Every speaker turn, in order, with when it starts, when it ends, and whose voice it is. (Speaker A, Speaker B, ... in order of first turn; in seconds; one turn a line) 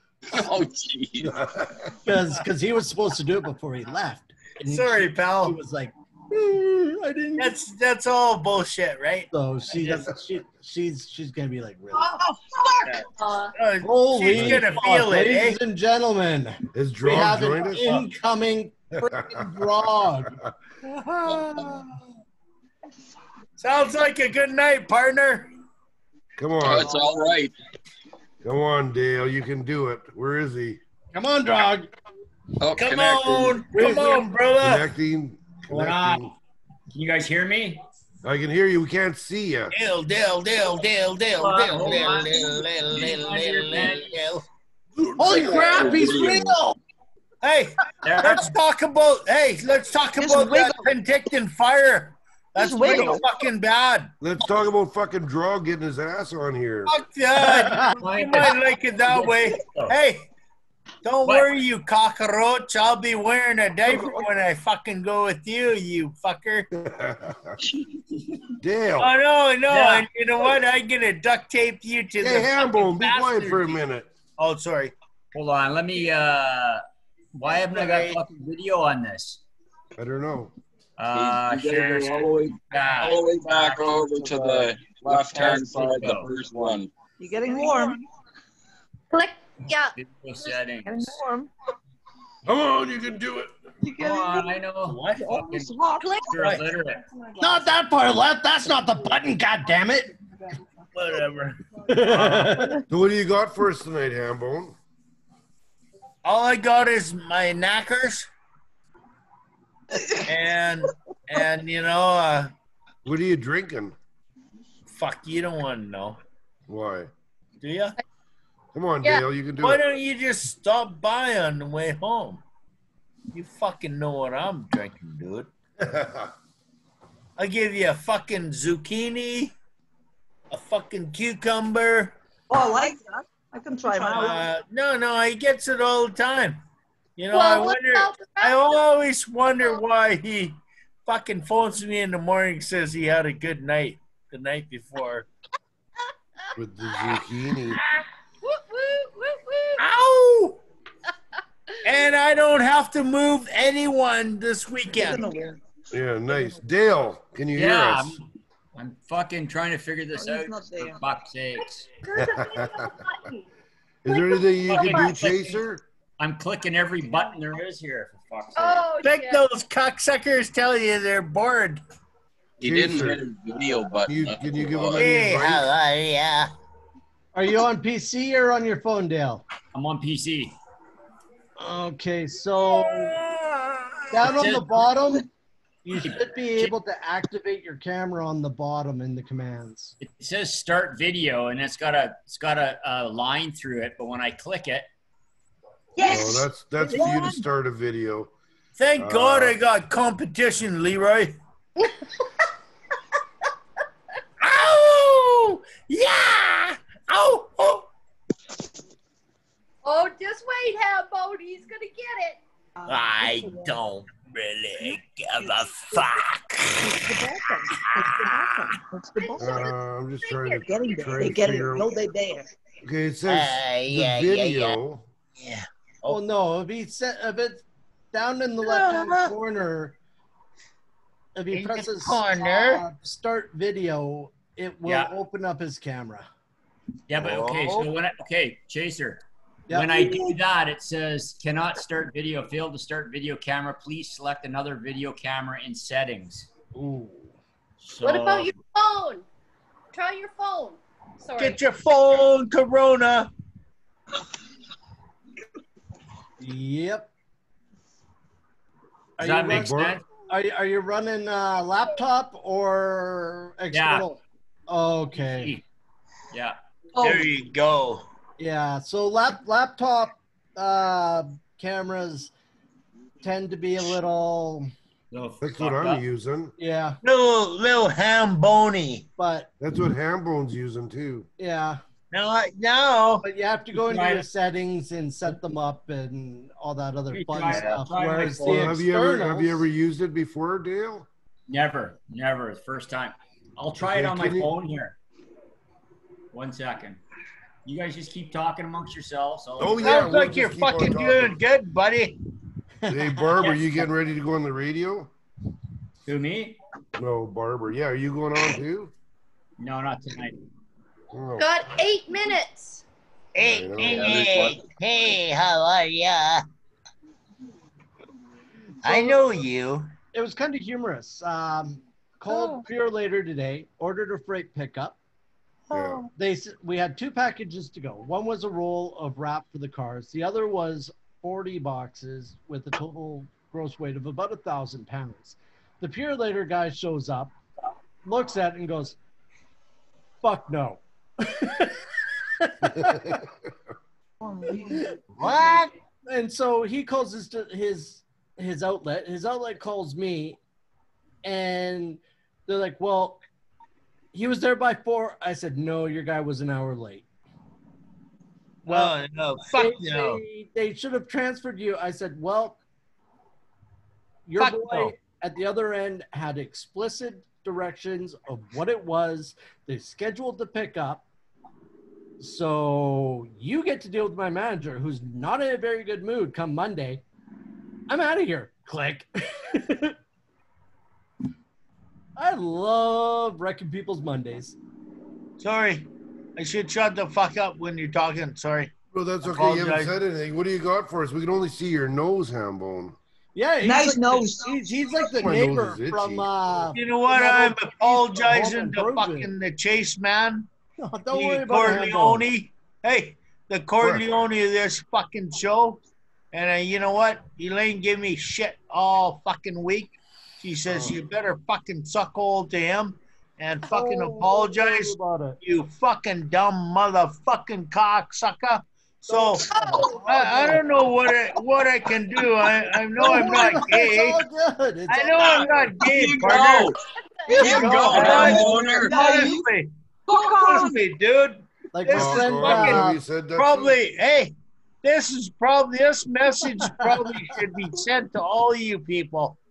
Speaker A: 0.3-1.4
Speaker B: 1.2-1.9
Speaker C: 2.0-7.6
Speaker D: 4.7-5.6
Speaker D: 7.4-10.1
Speaker C: 9.3-12.1
Speaker D: 12.8-15.6
Speaker E: 13.2-13.5
Speaker C: 13.8-20.4
Speaker B: 14.3-14.6
Speaker B: 16.7-17.9
Speaker D: 17.8-18.1
Speaker B: 19.0-19.7
Speaker D: 20.8-21.9
Speaker D: 23.6-25.5
Speaker B: 26.4-26.9
Speaker A: 26.6-27.5
Speaker B: 28.4-30.8
Speaker C: 31.1-31.9
Speaker A: 32.6-33.6
Speaker D: 32.7-34.9
Speaker C: 33.7-34.2
Speaker B: 34.6-36.3
Speaker F: 35.7-36.3
Speaker F: 36.9-37.8
Speaker B: 38.2-39.7
Speaker D: 39.7-44.4
Speaker F: 41.4-44.2
Speaker B: 45.0-46.1
Speaker C: 45.1-46.8
Speaker A: 45.2-46.5
Speaker D: 47.4-54.1
Speaker F: 48.0-48.5
Speaker G: 50.2-50.9
Speaker G: 52.6-53.2
Speaker B: 54.2-56.9
Speaker D: 56.9-60.3
Speaker C: 57.4-58.0
Speaker F: 57.9-60.0
Speaker D: 61.0-66.7
Speaker F: 61.2-61.5
Speaker B: 66.7-67.6
Speaker B: 68.6-69.1
Speaker D: 69.0-73.8
Speaker F: 69.7-70.1
Speaker B: 72.2-74.1
Speaker D: 74.4-74.9
Speaker F: 75.3-76.8
Speaker F: 77.3-79.4
Speaker D: 77.7-78.2
Speaker B: 80.0-80.5
Speaker F: 81.0-86.8
Speaker A: 81.1-86.9
Speaker G: 87.2-88.0
Speaker E: 89.1-89.9
Speaker F: 90.0-91.2
Speaker G: 90.8-91.5
Speaker B: 92.5-93.5
Speaker G: 93.8-94.6
Speaker F: 94.0-97.0
Speaker G: 95.2-96.2
Speaker E: 96.0-96.4
Speaker D: 96.4-96.6
Speaker C: 97.4-100.2
Speaker D: 100.9-102.4
Speaker C: 101.9-102.8
Speaker B: 102.9-104.8
Speaker D: 106.2-108.3
Speaker G: 109.9-110.2
Speaker D: 110.2-112.5
Speaker B: 113.0-114.0
Speaker D: 114.9-116.2
Speaker B: 116.7-117.1
Speaker D: 117.6-118.0
Speaker B: 118.7-119.8
Speaker D: 119.6-122.4
Speaker D: 123.3-125.5
Speaker B: 125.8-126.3
Speaker D: 127.4-129.5
Speaker D: 130.5-132.1
Speaker G: 132.5-134.5
Speaker D: 133.9-136.6
Speaker D: 137.2-145.3
Speaker E: 137.3-138.7
Speaker B: 146.5-147.8
Speaker D: 147.7-148.0
Speaker E: 148.4-149.8
Speaker D: 149.8-150.6
Speaker D: 151.8-155.3
Speaker G: 154.9-155.6
Speaker B: 155.9-158.2
Speaker F: 157.5-161.8
Speaker G: 160.1-161.0
Speaker E: 161.6-163.4
Speaker B: 162.1-162.9
Speaker B: 164.0-165.8
Speaker E: 164.1-165.2
Speaker F: 164.7-165.6
Speaker F: 166.2-168.9
Speaker E: 168.6-169.4
Speaker D: 169.0-171.8
Speaker B: 172.6-173.2
Speaker A: 172.6-175.1
Speaker B: 174.1-175.7
Speaker D: 175.0-176.5
Speaker C: 177.3-179.4
Speaker F: 179.7-180.5
Speaker C: 181.6-183.2
Speaker D: 182.7-183.9
Speaker C: 184.1-185.3
Speaker F: 184.2-184.9
Speaker C: 185.8-189.9
Speaker F: 186.0-186.7
Speaker F: 190.0-194.9
Speaker G: 195.9-197.4
Speaker B: 196.0-198.3
Speaker D: 198.8-201.3
Speaker B: 199.0-199.6
Speaker D: 204.4-207.9
Speaker E: 209.8-212.4
Speaker G: 212.8-213.7
Speaker D: 212.9-217.2
Speaker G: 216.8-219.7
Speaker D: 218.0-218.3
Speaker E: 219.2-221.4
Speaker B: 219.4-221.9
Speaker G: 220.6-222.5
Speaker B: 222.8-225.0
Speaker D: 223.3-224.8
Speaker D: 225.4-226.2
Speaker C: 226.1-229.9
Speaker D: 228.6-229.3
Speaker C: 231.3-236.3
Speaker D: 231.5-232.8
Speaker F: 234.8-235.1
Speaker F: 237.1-246.5
Speaker D: 237.2-237.9
Speaker C: 239.7-240.3
Speaker C: 246.7-247.3
Speaker F: 247.8-248.5
Speaker E: 248.0-249.2
Speaker E: 249.9-251.6
Speaker D: 251.4-253.3
Speaker C: 256.4-257.1
Speaker C: 259.2-265.6
Speaker F: 259.2-260.0
Speaker B: 259.5-260.0
Speaker F: 263.7-264.1
Speaker F: 265.1-265.6
Speaker F: 266.3-266.6
Speaker G: 266.9-267.3
Speaker D: 267.0-268.0
Speaker C: 268.4-272.3
Speaker C: 273.2-274.7
Speaker F: 275.1-276.0
Speaker B: 275.4-276.5
Speaker C: 276.6-277.0
Speaker D: 277.0-279.1
Speaker C: 279.2-279.5
Speaker B: 279.6-281.3
Speaker C: 281.4-281.8
Speaker D: 282.1-283.2
Speaker C: 283.2-289.6
Speaker F: 283.7-284.3
Speaker F: 287.1-288.7
Speaker D: 287.5-287.8
Speaker B: 288.4-291.1
Speaker F: 291.5-295.0
Speaker B: 293.8-294.5
Speaker F: 296.3-297.0
Speaker F: 297.6-300.1
Speaker B: 299.6-301.4
Speaker D: 299.8-302.2
Speaker B: 302.9-305.1
Speaker C: 302.9-303.2
Speaker F: 306.1-306.6
Speaker B: 306.9-308.9
Speaker F: 309.6-310.4
Speaker B: 311.1-311.5
Speaker E: 311.4-312.8
Speaker D: 313.3-316.4
Speaker B: 313.4-314.1
Speaker A: 313.8-314.6
Speaker C: 318.8-319.2
Speaker D: 318.8-319.9
Speaker C: 320.1-325.0
Speaker D: 325.7-326.1
Speaker B: 325.7-326.0
Speaker C: 326.1-337.3
Speaker C: 338.0-339.0
Speaker C: 340.2-341.8
Speaker C: 342.4-343.2
Speaker B: 342.6-343.3
Speaker G: 344.2-344.9
Speaker C: 344.6-344.9
Speaker D: 345.1-345.7
Speaker C: 346.1-350.4
Speaker C: 351.2-353.2
Speaker C: 354.1-357.0
Speaker D: 358.6-360.2
Speaker C: 358.7-362.6
Speaker C: 364.3-371.0
Speaker D: 364.4-364.9
Speaker C: 372.2-377.0
Speaker C: 377.9-379.9
Speaker C: 382.1-384.6
Speaker D: 385.4-389.9
Speaker B: 388.9-393.0
Speaker C: 393.3-399.3
Speaker G: 393.6-394.5
Speaker B: 395.2-396.3
Speaker D: 396.7-400.5
Speaker C: 400.8-402.3
Speaker D: 401.1-405.8
Speaker B: 403.8-404.2
Speaker D: 406.3-424.2
Speaker B: 410.7-411.0
Speaker C: 413.7-415.4
Speaker C: 419.1-420.6
Speaker G: 419.5-419.9
Speaker C: 423.0-425.3
Speaker D: 424.9-426.8
Speaker A: 425.2-426.8
Speaker E: 427.2-427.7
Speaker G: 427.3-429.5
Speaker A: 427.3-429.0
Speaker D: 427.4-439.4
Speaker C: 427.4-428.5
Speaker G: 430.1-430.8
Speaker C: 431.7-433.0
Speaker B: 431.9-433.8